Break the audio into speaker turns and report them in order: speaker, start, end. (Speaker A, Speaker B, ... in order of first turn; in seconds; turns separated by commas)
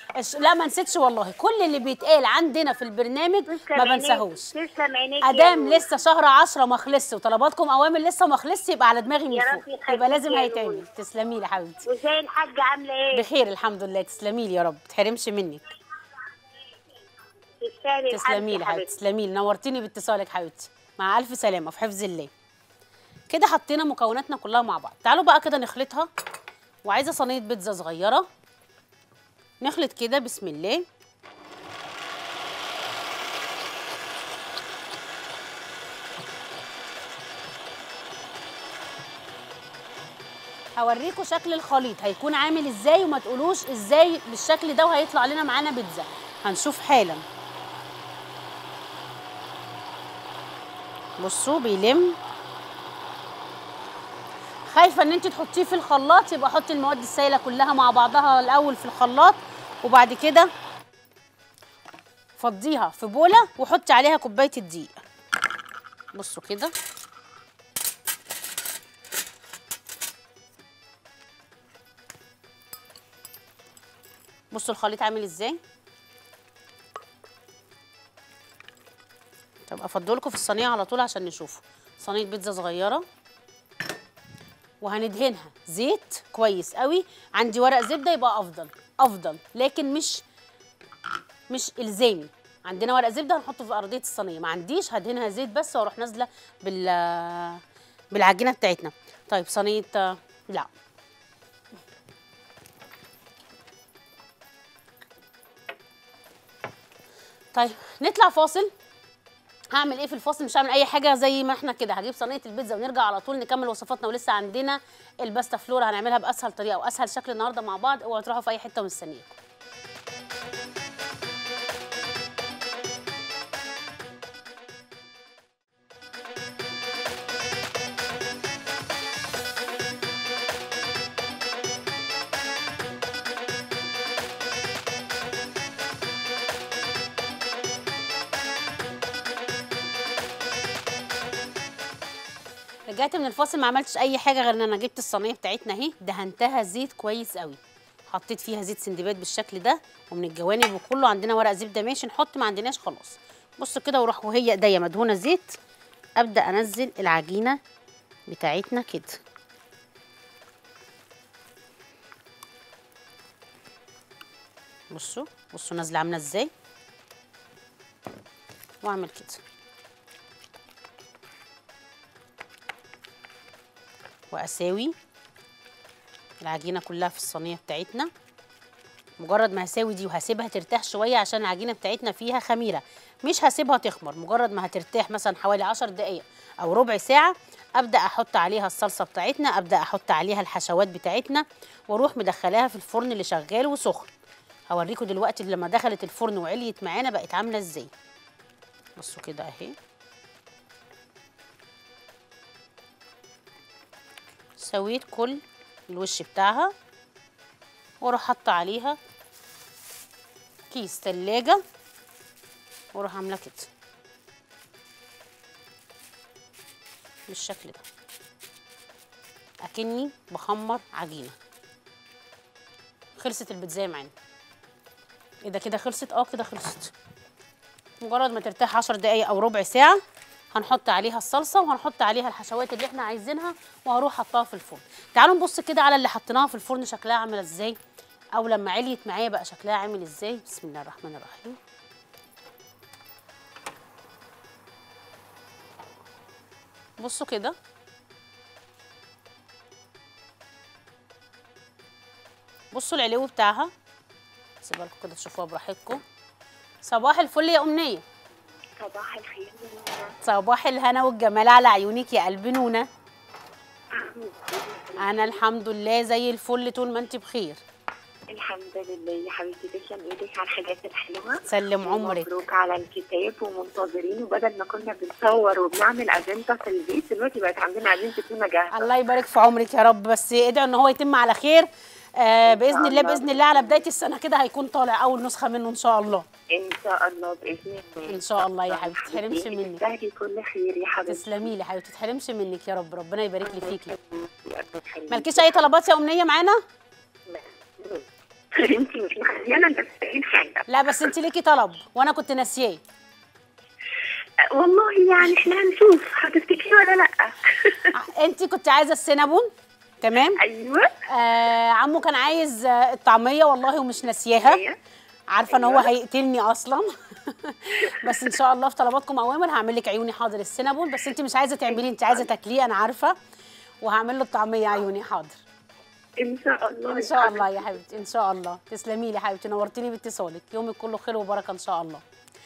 Speaker A: 0.2-4.5, Speaker B: 3.5-5.8, Speaker A: 5.2-11.8, Speaker B: 9.3-10.8, Speaker B: 11.8-13.2, Speaker A: 13.1-15.6, Speaker B: 17.6-18.9, Speaker A: 18.1-22.3, Speaker A: 23.3-26.1, Speaker A: 26.9-28.2, Speaker A: 29.6-30.8, Speaker A: 40.8-47.2, Speaker A: 51.2-52.2, Speaker A: 54.7-60.5, Speaker A: 62.4-65.0, Speaker A: 66.2-66.7, Speaker A: 74.5-75.6, Speaker A: 79.7-83.0, Speaker A: 84.8-90.2, Speaker A: 91.5-97.6, Speaker A: 98.1-100.7, Speaker A: 107.5-108.7, Speaker A: 109.7-119.4, Speaker A: 142.9-147.6, Speaker A: 148.1-155.6, Speaker A: 156.2-157.6, Speaker A: 158.3-159.2, Speaker A: 164.9-166.5, Speaker A: 168.8-169.4, Speaker A: 174.3-174.9, Speaker A: 176.4-178.1, Speaker A: 179.2-194.1, Speaker A: 194.7-197.9, Speaker A: 199.0-199.7, Speaker A: 204.6-205.4, Speaker A: 205.9-206.7, Speaker A: 208.0-209.0, Speaker A: 210.7-211.6, Speaker A: 212.9-213.7, Speaker A: 217.3-217.8, Speaker A: 219.6-221.3, Speaker A: 223.2-224.1, Speaker A: 225.4-226.9, Speaker A: 228.0-230.0, Speaker A: 230.5-237.8, Speaker A: 238.3-241.6, Speaker A: 247.0-247.5, Speaker A: 252.7-253.7, Speaker A: 254.6-256.0, Speaker A: 256.8-258.0, Speaker C: 258.8-260.1, Speaker A: 260.2-262.9, Speaker C: 263.9-265.4, Speaker A: 265.0-267.6, Speaker C: 268.3-278.9, Speaker A: 271.4-272.3, Speaker A: 278.7-286.2, Speaker C: 282.6-283.8, Speaker C: 286.5-291.2, Speaker A: 288.1-289.8, Speaker A: 291.1-294.0, Speaker C: 293.8-295.6, Speaker A: 295.1-296.6, Speaker C: 297.3-298.0, Speaker C: 298.5-300.7, Speaker A: 300.7-302.8, Speaker C: 304.5-307.9, Speaker A: 307.9-310.4, Speaker C: 310.4-310.9, Speaker A: 311.1-314.6, Speaker C: 314.4-314.8, Speaker A: 315.3-323.1, Speaker C: 315.5-315.9, Speaker A: 323.8-325.4, Speaker C: 326.2-327.5, Speaker A: 326.9-332.0